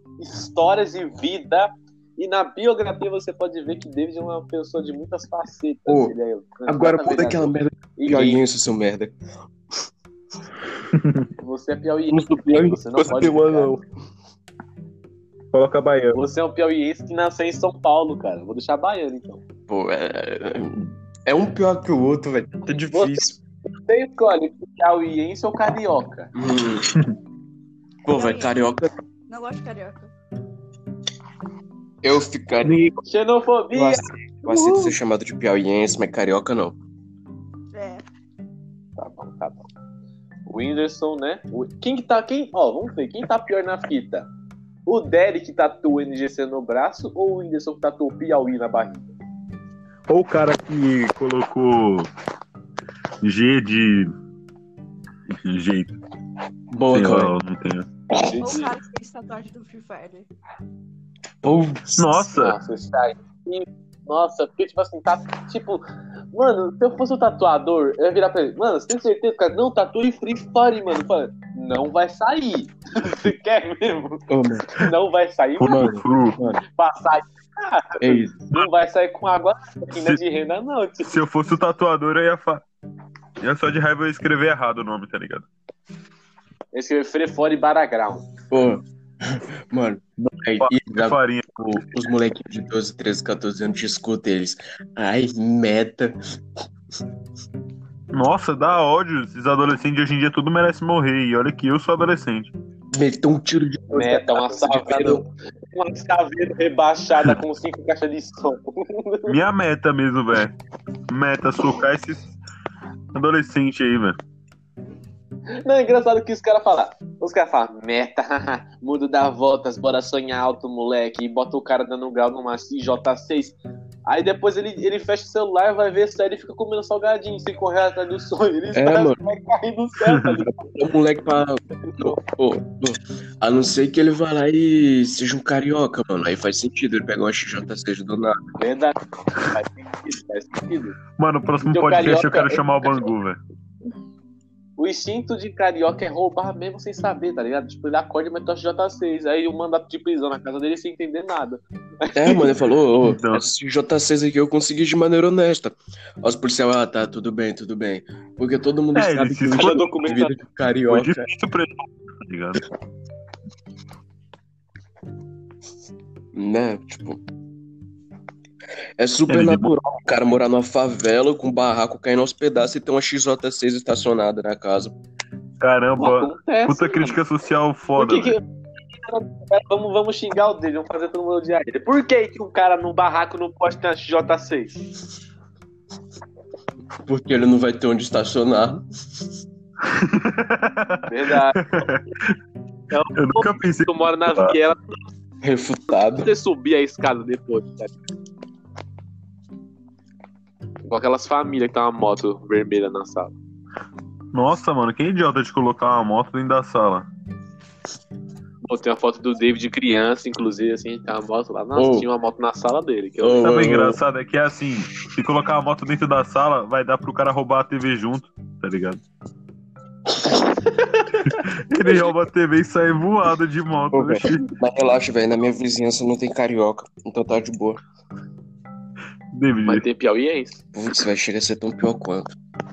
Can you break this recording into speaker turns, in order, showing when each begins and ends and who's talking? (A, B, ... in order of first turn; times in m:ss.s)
0:00.2-0:08.4 A
0:05.9-0:06.2 B
0:06.7-0:09.2 B
0:10.9-0:11.2 C
0:11.4-0:13.8 A
0:12.1-0:13.8 B
0:15.5-0:16.2 C
0:16.1-0:19.4 A
0:19.7-0:23.4 B
0:22.9-0:23.3 A
0:23.9-0:26.3 A
0:26.4-0:27.0 B
0:28.0-0:28.9 B
0:28.1-0:28.6 D
0:29.3-0:30.1 D
0:32.0-0:32.8 B
0:32.6-0:33.0 C
0:33.0-0:34.9 A
0:33.7-0:36.8 B
0:37.7-0:38.0 D
0:39.0-0:39.6 A
0:40.5-0:44.3 A
0:44.9-0:49.1 A
0:50.1-0:52.1 C
0:53.2-0:54.1 C
0:55.3-0:56.0 C
0:56.7-0:57.3 B
0:56.9-0:57.9 C
0:58.2-0:58.7 A
0:58.4-1:00.3 D
1:01.4-1:02.3 B
1:02.0-1:02.6 C
1:02.3-1:16.0 A
1:14.3-1:14.9 B
1:15.6-1:16.4 C
1:15.7-1:16.6 B
1:16.7-1:21.2 A
1:18.0-1:18.4 B
1:21.1-1:22.6 C
1:23.4-1:25.5 C
1:26.7-1:28.3 A
1:28.5-1:36.2 B
1:30.2-1:31.8 C
1:38.1-1:42.5 C
1:42.9-1:45.2 B
1:43.9-1:49.4 A
1:49.3-1:50.5 C
1:51.1-1:52.3 C
1:53.1-1:54.2 C
1:55.6-2:10.6 A
2:08.7-2:09.2 B
2:10.7-2:18.4 B
2:11.8-2:12.2 A
2:18.6-2:21.0 A
2:21.2-2:23.4 C
2:21.6-2:23.1 A
2:24.8-2:32.5 A
2:32.1-2:41.2 B
2:33.0-2:33.4 C
2:39.0-2:39.8 C
2:39.6-2:40.4 A
2:40.9-2:42.7 C
2:46.3-2:47.2 B
2:49.0-2:55.0 B
2:49.3-2:49.8 C
2:55.6-2:58.4 C
2:56.0-2:57.2 A
2:58.0-3:04.9 A
3:07.0-3:08.8 B
3:09.9-3:12.3 C
3:11.1-3:11.8 A
3:12.9-3:15.0 A
3:13.1-3:14.6 C
3:15.4-3:16.3 B
3:16.2-3:17.9 A
3:20.8-3:23.4 A
3:24.3-3:27.1 C
3:28.6-3:33.5 A
3:31.8-3:32.1 B
3:33.2-3:34.0 B
3:33.4-3:39.0 C
3:41.2-3:44.5 C
3:43.9-3:47.8 B
3:49.3-3:49.8 C
3:49.7-3:50.6 A
3:50.7-3:52.4 B